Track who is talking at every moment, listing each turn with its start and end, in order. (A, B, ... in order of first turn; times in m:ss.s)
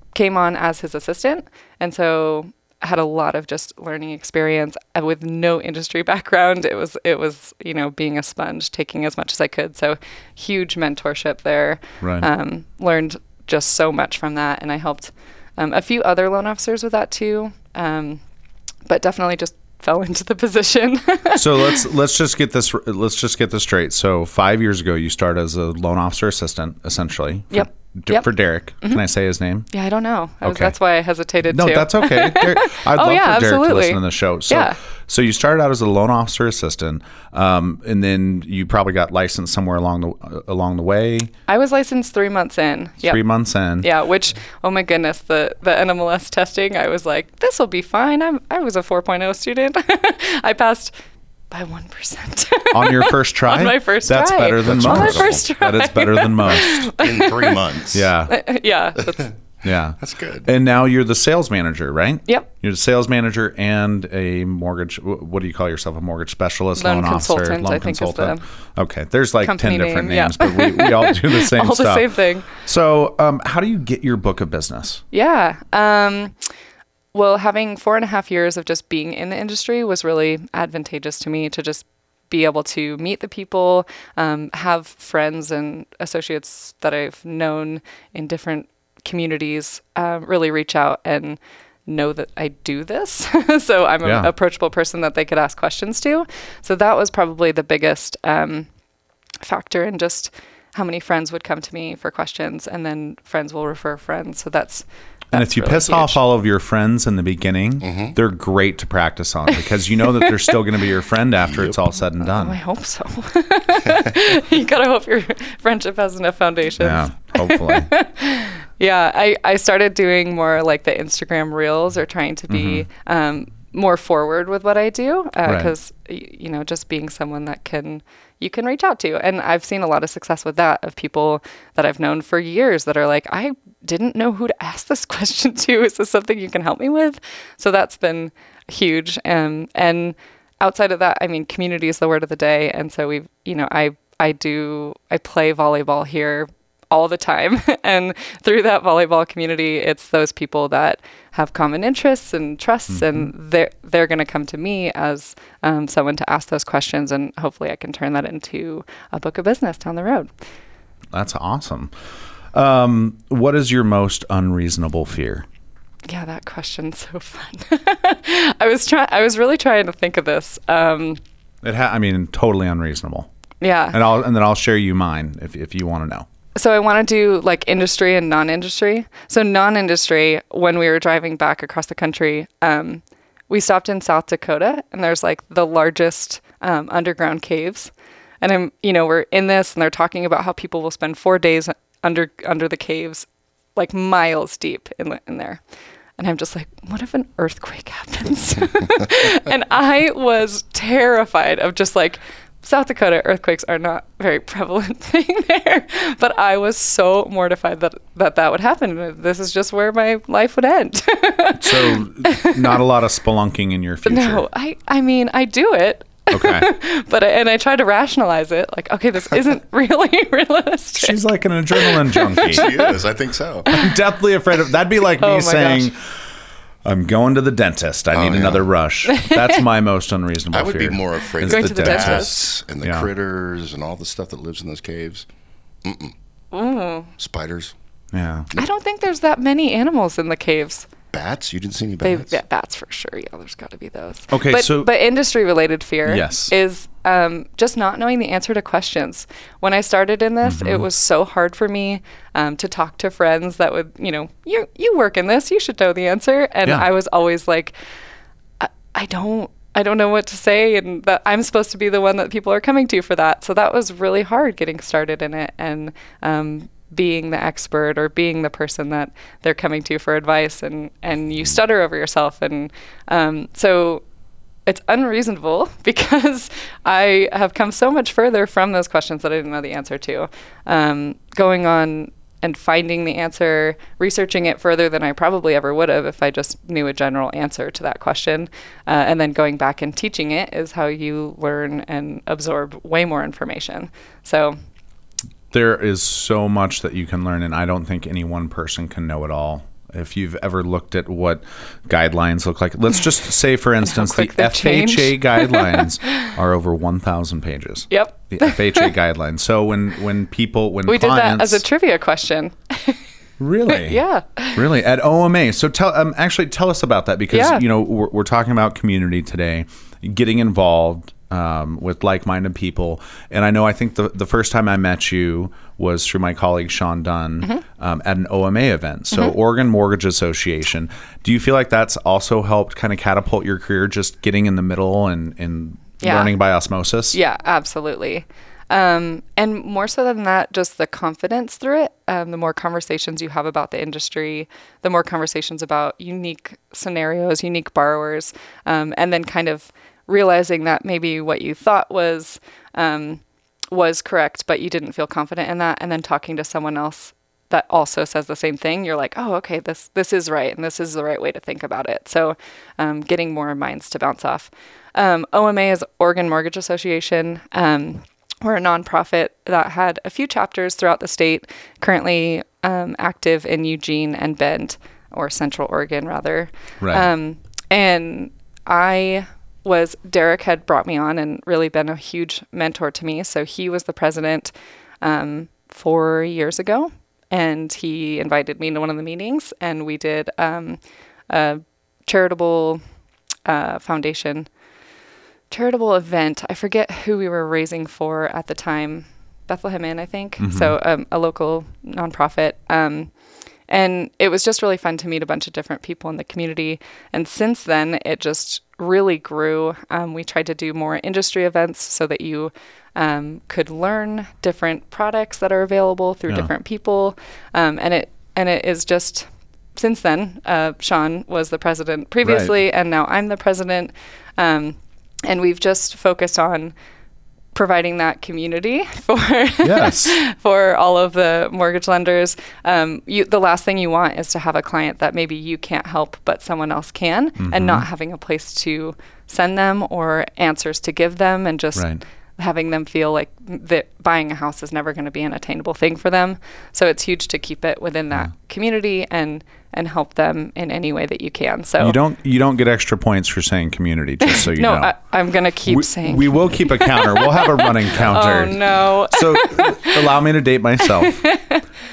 0:00.1-0:18.2 A
0:12.0-0:12.3 B
0:18.9-0:21.8 A
0:21.4-0:29.7 B
0:27.5-0:28.3 A
0:29.7-0:34.8 A
0:30.4-0:30.8 B
0:31.4-0:41.3 B
0:41.5-0:43.2 A
0:43.0-0:43.9 B
0:43.8-0:50.9 A
0:51.5-0:57.6 A
0:52.7-0:56.9 B
0:54.6-0:55.5 C
0:56.4-0:58.1 C
0:57.9-0:58.3 B
0:58.3-0:59.3 A
0:59.1-1:00.5 C
0:59.6-1:15.0 B
1:06.8-1:08.4 A
1:09.4-1:12.5 A
1:15.1-1:16.5 A
1:17.1-1:38.7 A
1:34.0-1:34.3 B
1:39.4-1:46.2 A
1:45.3-1:52.6 B
1:47.8-1:48.2 C
1:50.1-1:50.5 A
1:51.4-1:51.8 C
1:52.2-2:40.3 A
1:56.8-1:57.9 B
2:02.5-2:02.9 B
2:05.4-2:05.7 B
2:32.9-2:33.3 B
2:41.1-2:41.9 B
2:42.5-2:45.5 B
2:46.1-2:51.2 A
2:51.6-2:53.3 B
2:53.6-2:54.0 A
2:53.9-2:56.3 B
2:56.6-3:15.6 A
3:16.2-3:32.8 A
3:31.5-3:34.5 B
3:34.0-3:43.0 A
3:36.3-3:36.7 B
3:41.0-3:42.7 B
3:42.4-3:43.7 C
3:43.7-3:44.0 A
3:43.7-3:46.0 B
3:45.2-3:45.9 A
3:46.8-3:52.3 B
3:48.1-3:48.7 C
3:49.1-3:49.6 A
3:50.5-3:55.3 C
3:51.4-3:52.5 A
3:52.8-3:53.1 B
3:55.8-3:56.1 C
3:56.5-3:57.1 A
3:57.2-3:57.7 C
3:58.1-3:58.5 B
3:58.5-4:00.9 A
4:01.1-4:02.4 C
4:02.0-4:17.8 A
4:04.3-4:04.9 B
4:06.1-4:06.5 B
4:10.4-4:10.8 B
4:18.6-4:34.0 A
4:34.7-4:54.6 A
4:55.5-5:11.6 B
5:03.8-5:06.3 A
5:07.9-5:09.0 A
5:10.9-5:13.0 A
5:13.4-5:14.0 B
5:13.7-5:14.6 A
5:14.6-5:37.2 B
5:17.3-5:17.6 A
5:36.0-5:36.3 A
5:37.1-6:32.8 A
6:16.8-6:17.1 B
6:33.5-6:34.5 A
6:35.5-6:43.1 A
6:40.4-6:40.8 B
6:43.7-7:06.7 A
7:02.2-7:02.6 B
7:07.5-7:32.0 A
7:09.6-7:10.2 B
7:17.4-7:17.9 B
7:21.8-7:22.0 B
7:31.8-7:35.0 B
7:34.2-7:40.1 A
7:35.7-7:41.2 B
7:40.8-7:41.6 A